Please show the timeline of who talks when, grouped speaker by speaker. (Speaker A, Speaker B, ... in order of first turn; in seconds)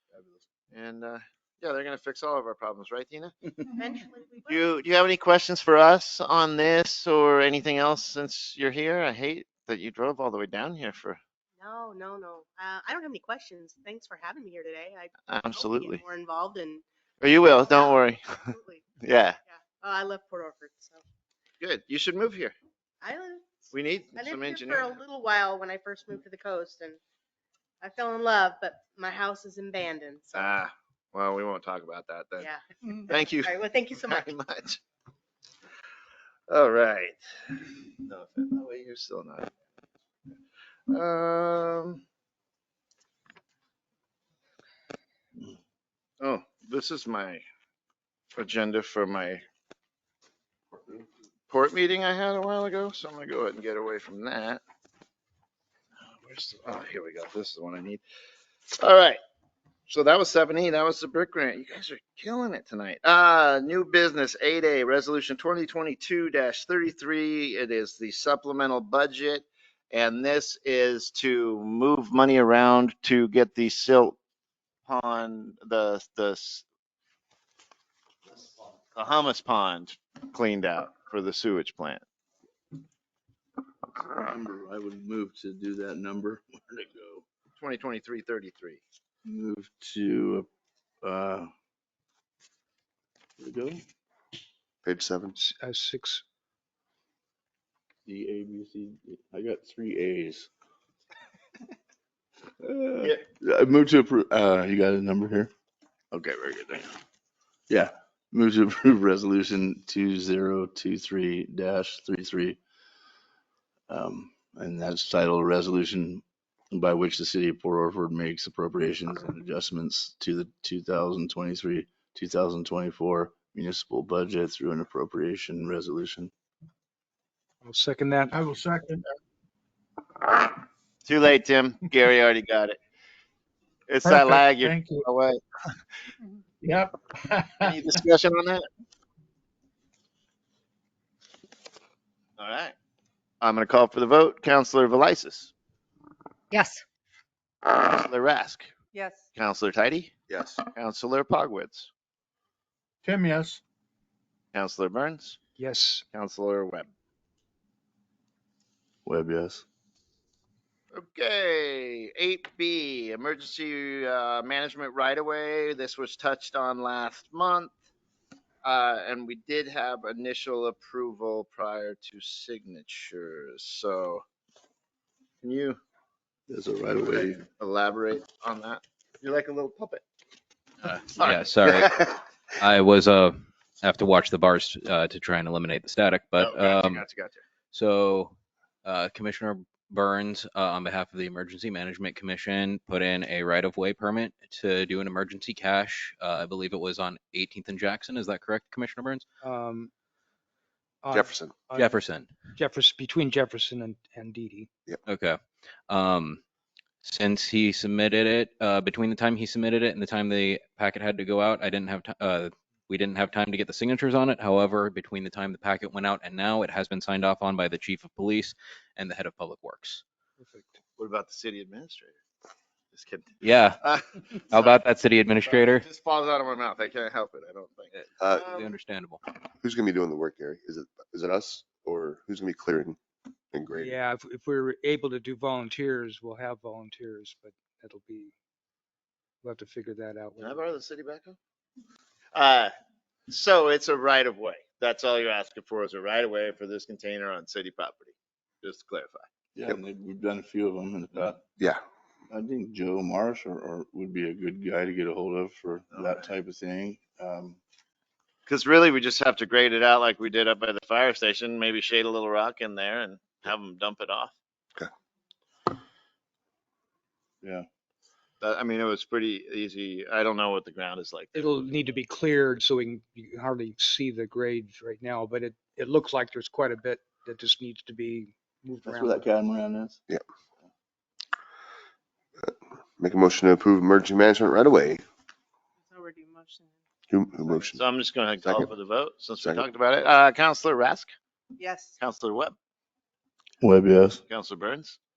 Speaker A: 0.7-3.4, 4.5-11.2, 15.3-16.0, 17.2-19.4, 21.6-22.6, 23.7-24.9, 30.4-34.8, 36.5-37.2, 38.0-39.5, 40.9-42.0, 46.2-47.4, 48.4-49.4, 51.5-54.6, 56.1-58.0, 58.8-59.2, 59.9-74.2, 74.9-76.7, 79.0-82.0, 87.6-88.8, 131.1-132.8, 133.9-135.4, 137.6-138.7, 142.4-142.8, 143.4-145.5, 147.7-148.7, 149.3-150.1, 150.7-151.9, 154.5-155.4, 156.1-156.9, 160.9-167.7, 168.6-174.2, 175.4-175.8, 177.0-180.0, 186.4-187.4, 221.0-222.2, 222.9-224.8, 225.5-228.6, 240.4-241.4, 242.3-242.7, 243.3-249.3, 255.9-256.2, 258.5-264.3, 268.4-271.5, 287.7-291.1, 292.0-292.6, 294.3-295.0
Speaker B: 3.8-4.7, 11.6-16.8, 17.4-21.0, 23.0-27.0, 27.8-30.6, 32.4-34.3, 285.9-286.7, 291.6-291.9
Speaker C: 84.0-87.2, 89.2-90.5, 91.0-91.5, 93.4-93.8, 98.1-100.5, 102.6-105.5, 106.1-107.0, 107.7-112.6, 113.9-126.3, 159.1-159.6, 176.5-177.4, 249.6-251.4, 252.3-257.6, 278.8-280.0, 293.6-294.2
Speaker D: 94.8-95.4, 150.3-150.6, 201.1-201.5, 228.2-228.5, 229.6-233.0, 233.5-234.0, 282.4-285.0, 287.1-287.9, 288.4-288.7
Speaker E: 95.4-96.2, 127.6-128.3, 155.6-156.1, 199.4-199.9, 201.0-201.9, 202.6-204.7, 220.4-220.8, 233.8-238.3, 239.4-240.6, 271.3-279.2
Speaker F: 128.3-129.0, 134.0-135.1, 136.6-137.7, 153.0-153.6
Speaker G: 180.9-187.1, 187.7-199.2, 201.8-202.3, 205.1-205.4, 205.9-206.4, 207.0-220.0, 223.4-223.8, 224.4-225.8, 227.9-229.2